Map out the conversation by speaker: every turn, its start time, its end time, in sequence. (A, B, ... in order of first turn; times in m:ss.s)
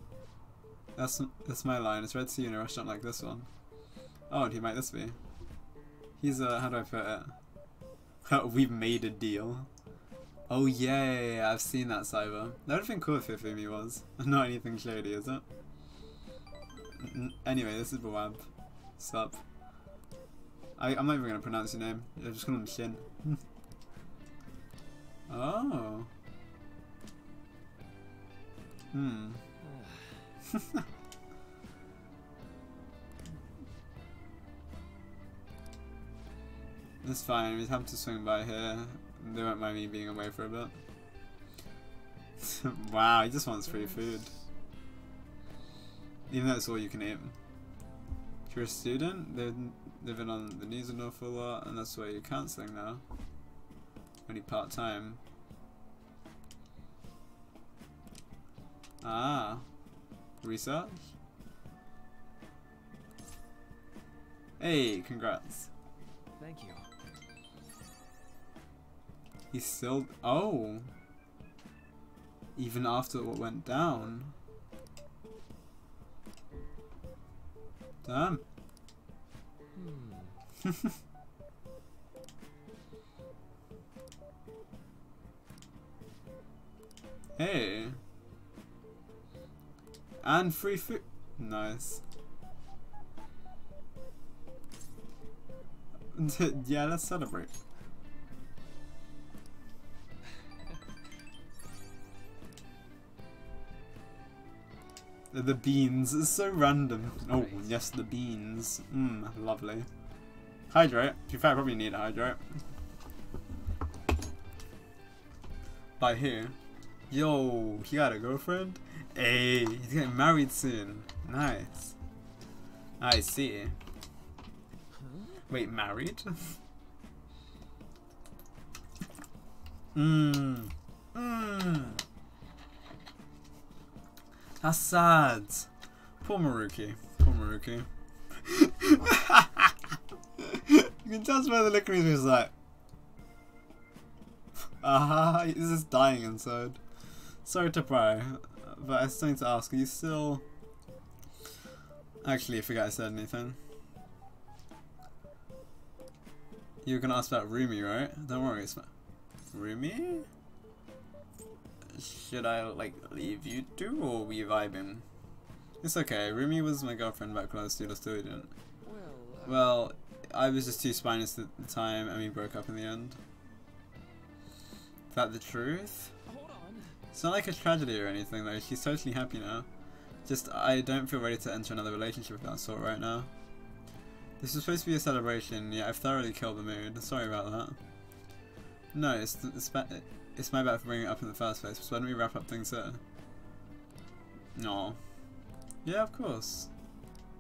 0:01.0-0:03.5 A
0:04.3-0:05.2 A
0:06.2-0:07.4 A
0:08.2-0:09.7 A
0:10.5-0:15.4 A
0:17.0-0:18.5 A
0:19.0-0:19.4 A
0:20.8-0:23.4 A
0:25.3-0:26.1 A
0:28.9-0:29.4 A
0:29.6-0:30.3 B
0:30.5-0:30.8 A
0:37.0-0:40.8 A
0:42.4-0:44.3 A
0:43.6-0:44.4 B
0:46.3-0:47.3 A
0:48.5-0:53.0 A
0:54.2-0:55.2 A
0:59.0-0:59.6 A
1:00.4-1:01.1 A
1:04.6-1:05.7 A
1:06.4-1:06.9 B
1:09.5-1:10.9 A
1:12.6-1:14.3 A
1:18.0-1:18.4 A
1:19.7-1:20.3 B
1:27.4-1:28.0 A
1:30.2-1:32.0 A
1:36.1-1:37.5 A
1:45.3-1:49.9 A
1:47.2-1:47.7 B
1:50.7-1:52.6 A
1:56.0-1:56.6 A
1:57.1-2:01.9 A
2:03.0-2:03.8 A
2:04.9-2:05.4 B
2:05.5-2:06.6 A
2:09.9-2:12.0 A
2:14.6-2:15.7 A
2:16.2-2:19.8 A
2:20.4-2:22.5 A
2:24.8-2:26.8 A
2:27.4-2:30.4 A
2:32.2-2:33.6 A
2:36.8-2:38.9 A
2:39.5-2:40.3 A
2:41.9-2:45.0 A
2:45.8-2:48.5 A
2:48.8-2:49.8 B
2:49.4-2:53.2 A
2:55.1-2:56.1 A
2:56.2-2:57.0 B
2:57.1-2:59.7 A
3:00.2-3:03.3 A
3:04.4-3:07.8 A
3:08.9-3:13.0 A
3:14.5-3:15.0 A
3:15.8-3:16.7 A